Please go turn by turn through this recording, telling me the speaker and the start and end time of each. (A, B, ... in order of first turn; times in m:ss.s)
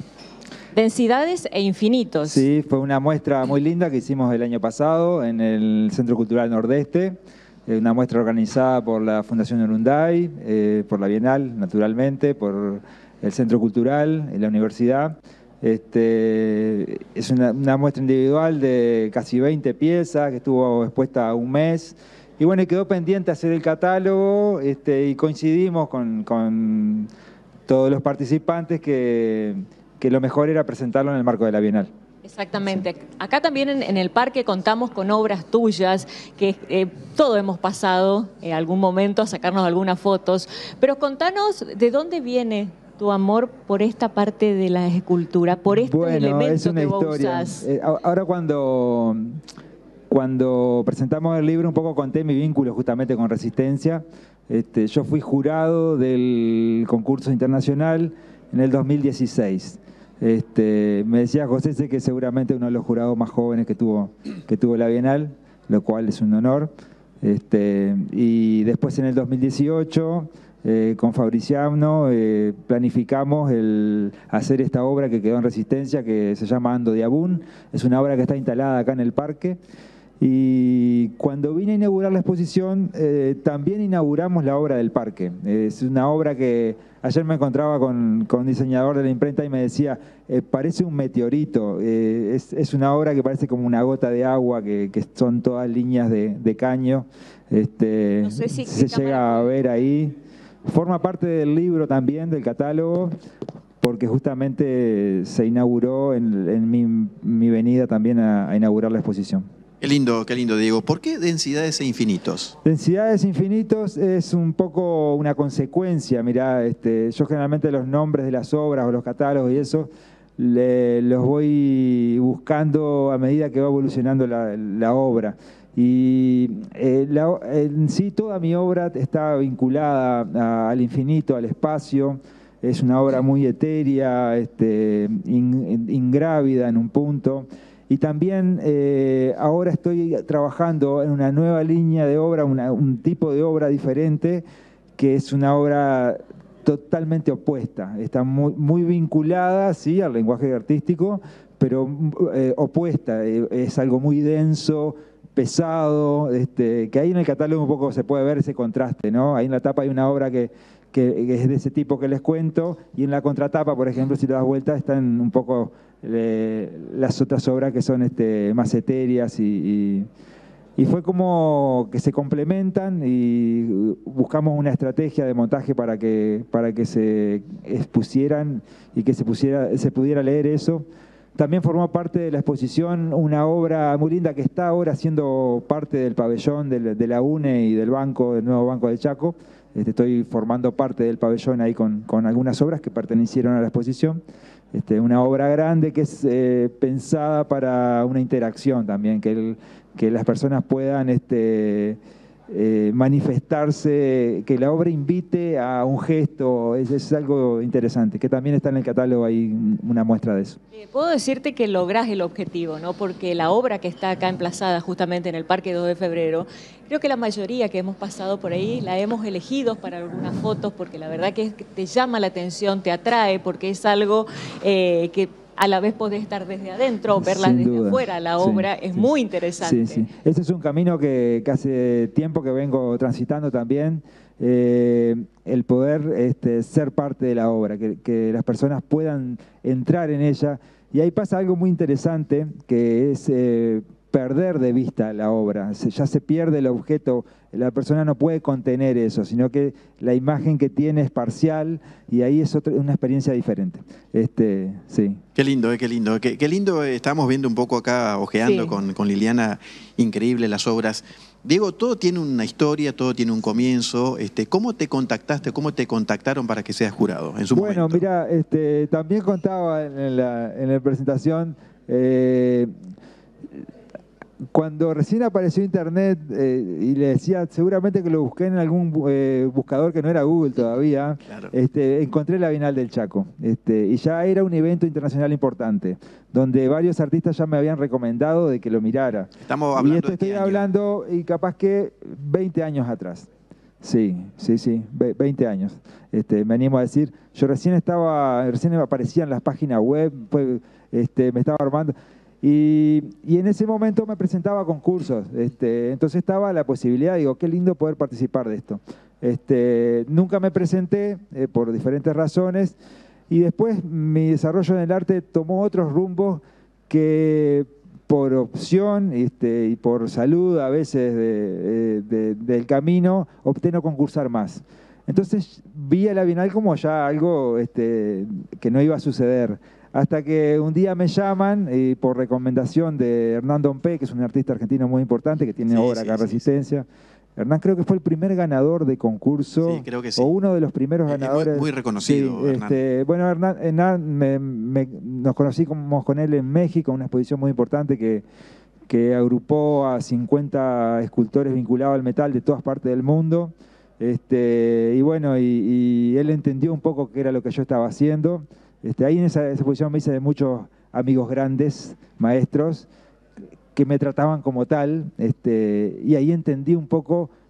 0:00.7-0:02.5 A
0:02.2-0:07.2 B
0:07.7-0:27.1 B
0:27.7-0:31.9 B
0:32.2-0:47.7 A
0:45.7-0:49.4 B
0:50.1-1:06.7 B
1:07.2-1:19.6 B
1:20.2-1:40.1 B
1:38.2-1:39.6 A
1:40.6-1:43.1 B
1:43.8-1:49.4 B
1:49.8-1:52.5 C
1:52.6-2:24.4 B
2:25.0-2:50.1 B
2:50.8-3:00.8 B
3:01.4-3:14.2 B
3:14.7-3:30.6 B
3:30.7-3:50.1 A
3:47.2-4:15.2 B
4:15.4-4:28.0 C
4:18.4-4:18.8 A
4:27.5-4:32.7 B
4:34.5-4:53.3 B
4:49.4-4:50.7 C
4:53.8-5:12.8 B
5:13.3-5:36.8 B
5:35.6-5:36.4 C
5:37.4-5:48.2 B
5:39.6-5:40.3 C
5:41.0-5:42.8 C
5:48.9-6:02.9 B
6:03.7-6:07.3 B